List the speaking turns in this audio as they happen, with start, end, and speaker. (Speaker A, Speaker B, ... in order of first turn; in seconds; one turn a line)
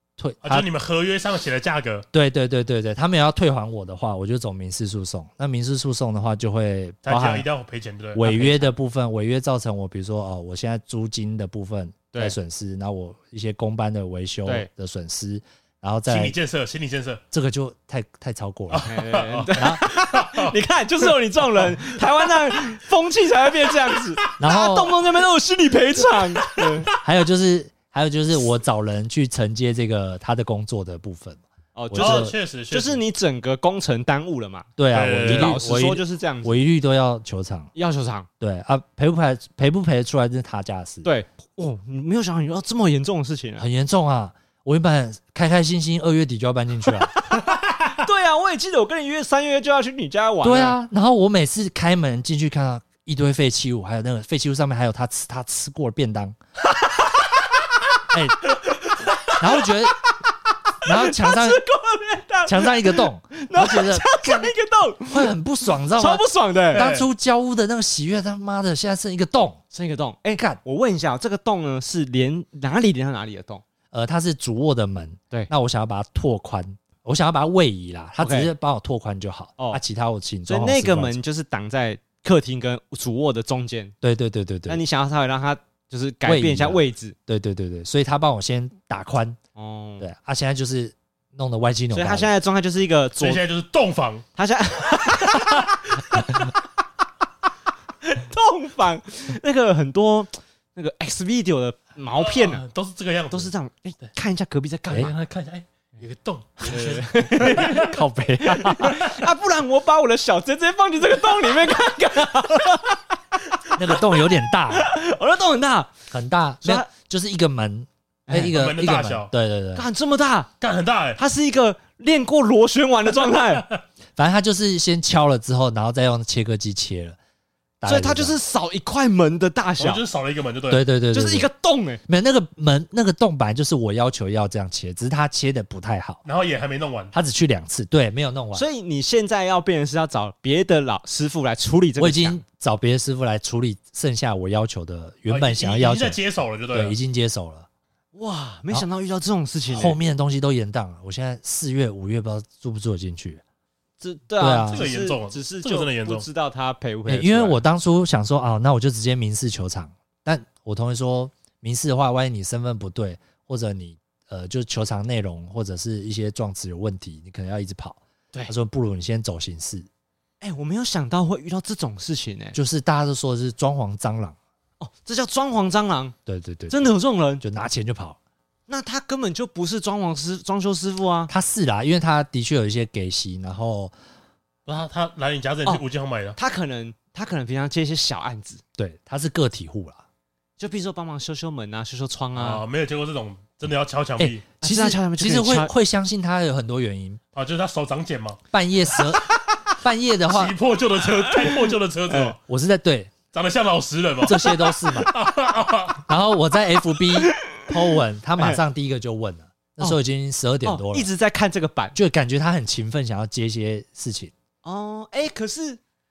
Speaker A: 0.2-0.7
Speaker B: 0.4-2.0
Speaker A: 2.1-7.5
Speaker B: 7.0-8.3
Speaker A: 8.1-16.3
Speaker C: 8.2-8.7
Speaker B: 16.1-17.2
Speaker A: 17.3-18.9
Speaker B: 18.7-20.5
Speaker C: 18.8-26.9
Speaker A: 19.5-19.8
Speaker A: 24.4-25.0
Speaker A: 26.9-32.3
Speaker C: 31.7-34.7
Speaker B: 32.0-33.0
Speaker A: 34.8-37.7
Speaker B: 34.9-35.6
Speaker C: 35.2-36.6
Speaker C: 37.7-38.3
Speaker A: 38.4-41.1
Speaker C: 41.0-43.6
Speaker A: 43.6-47.1
Speaker C: 47.3-50.8
Speaker A: 50.4-56.4
Speaker C: 56.8-57.2
Speaker A: 58.1-58.5
Speaker C: 58.4-60.1
Speaker A: 59.4-60.0
Speaker C: 60.8-66.9
Speaker A: 60.8-61.6
Speaker A: 62.5-64.5
Speaker A: 65.1-69.6
Speaker B: 66.7-67.1
Speaker C: 69.7-73.6
Speaker A: 73.9-81.2
Speaker C: 78.2-78.5
Speaker C: 80.5-83.9
Speaker A: 84.0-84.8
Speaker C: 84.7-87.1
Speaker A: 86.2-89.4
Speaker C: 89.5-90.1
Speaker A: 90.0-92.3
Speaker C: 91.9-93.4
Speaker B: 93.2-94.2
Speaker C: 94.3-95.7
Speaker B: 95.2-96.4
Speaker C: 98.0-102.6
Speaker B: 102.2-103.5
Speaker C: 103.3-105.1
Speaker B: 104.9-108.0
Speaker C: 106.6-113.0
Speaker A: 107.4-109.0
Speaker A: 113.7-114.9
Speaker C: 114.7-115.9
Speaker A: 116.1-119.8
Speaker C: 116.6-116.9
Speaker C: 118.3-118.5
Speaker B: 118.5-119.3
Speaker C: 119.7-120.5
Speaker B: 120.6-121.2
Speaker C: 121.2-123.7
Speaker A: 124.2-127.2
Speaker A: 127.8-128.4
Speaker C: 127.8-130.0
Speaker B: 129.8-130.8
Speaker A: 130.7-131.5
Speaker C: 131.1-132.0
Speaker A: 132.1-136.2
Speaker B: 136.2-137.1
Speaker A: 137.1-138.7
Speaker C: 138.5-142.4
Speaker A: 142.0-146.2
Speaker B: 145.3-146.9
Speaker A: 146.7-147.7
Speaker C: 148.1-150.0
Speaker A: 149.7-153.4
Speaker C: 154.0-157.6
Speaker A: 154.4-154.8
Speaker B: 154.7-156.2
Speaker A: 157.1-169.9
Speaker C: 170.4-172.6
Speaker A: 172.5-174.4
Speaker C: 174.8-176.1
Speaker A: 176.2-178.2
Speaker C: 176.7-177.4
Speaker C: 178.7-181.3
Speaker A: 181.3-183.9
Speaker B: 184.7-186.4
Speaker C: 186.4-188.6
Speaker A: 188.8-190.0
Speaker C: 190.6-192.6
Speaker B: 192.3-194.4
Speaker A: 194.2-197.2
Speaker C: 194.6-195.7
Speaker B: 197.3-198.4
Speaker A: 198.5-199.2
Speaker A: 199.8-200.6
Speaker B: 200.3-202.4
Speaker C: 202.1-202.3
Speaker A: 202.4-203.1
Speaker B: 203.3-206.0
Speaker A: 204.2-205.1
Speaker A: 206.1-211.1
Speaker C: 207.2-207.7
Speaker C: 210.6-212.0
Speaker A: 211.9-214.3
Speaker C: 214.6-215.8